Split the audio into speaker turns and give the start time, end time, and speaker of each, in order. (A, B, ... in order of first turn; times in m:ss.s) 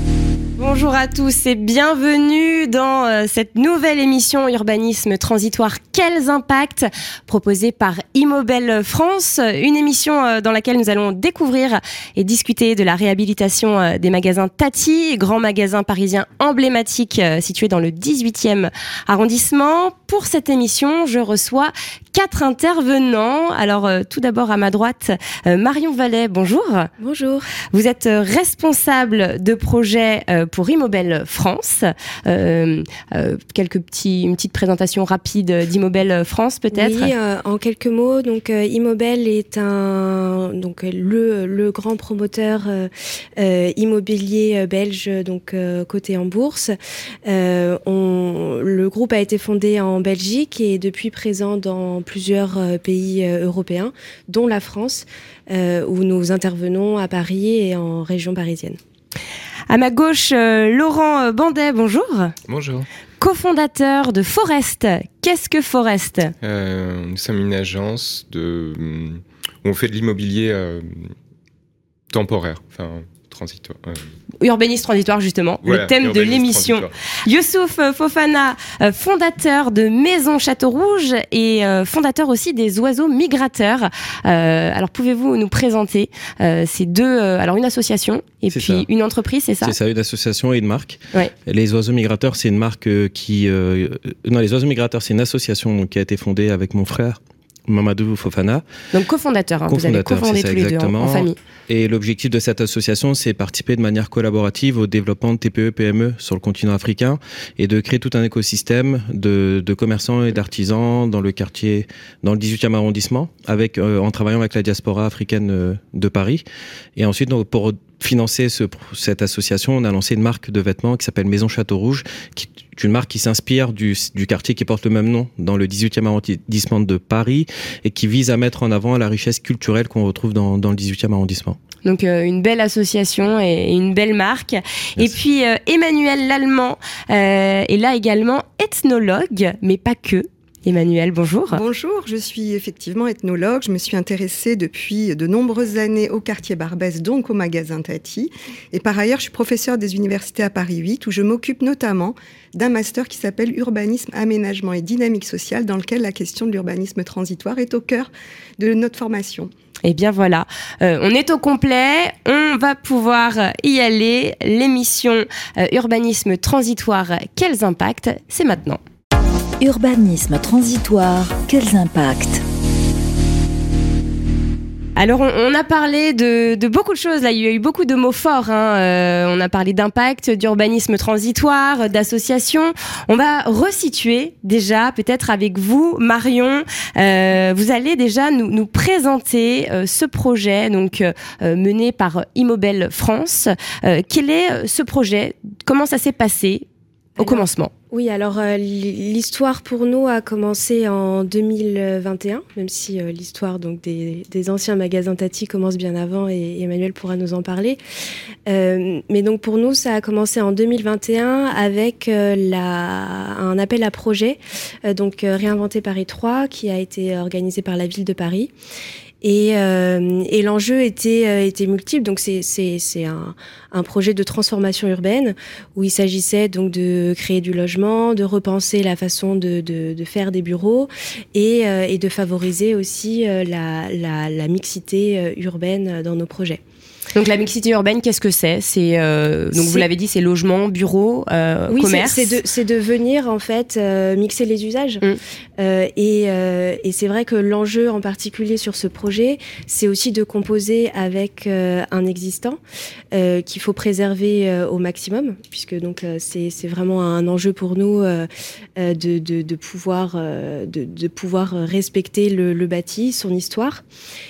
0:00.6-0:26.9 A
0:27.0-0:27.5 B
0:27.7-0:37.1 A
0:36.7-0:58.8 B
0:59.7-1:02.3 A
1:02.5-1:02.9 C
1:03.2-1:06.3 A
1:06.4-1:11.1 C
1:12.1-1:14.0 C
1:14.4-1:29.7 A
1:15.6-1:16.9 C
1:28.5-1:28.9 D
1:29.6-1:38.6 D
1:38.9-1:41.4 A
1:39.7-1:56.4 D
1:57.0-2:11.6 D
2:11.8-2:21.6 A
2:21.5-2:39.5 E
2:39.8-2:48.8 A
2:49.6-2:52.4 F
2:55.0-3:16.6 A
3:17.2-3:27.8 B
3:17.2-3:17.7 A
3:28.5-3:38.5 B
3:39.2-3:56.6 B
3:57.1-4:02.4 A
3:59.5-3:59.9 B
4:01.7-4:05.0 B
4:05.6-4:12.6 B
4:13.1-4:23.8 B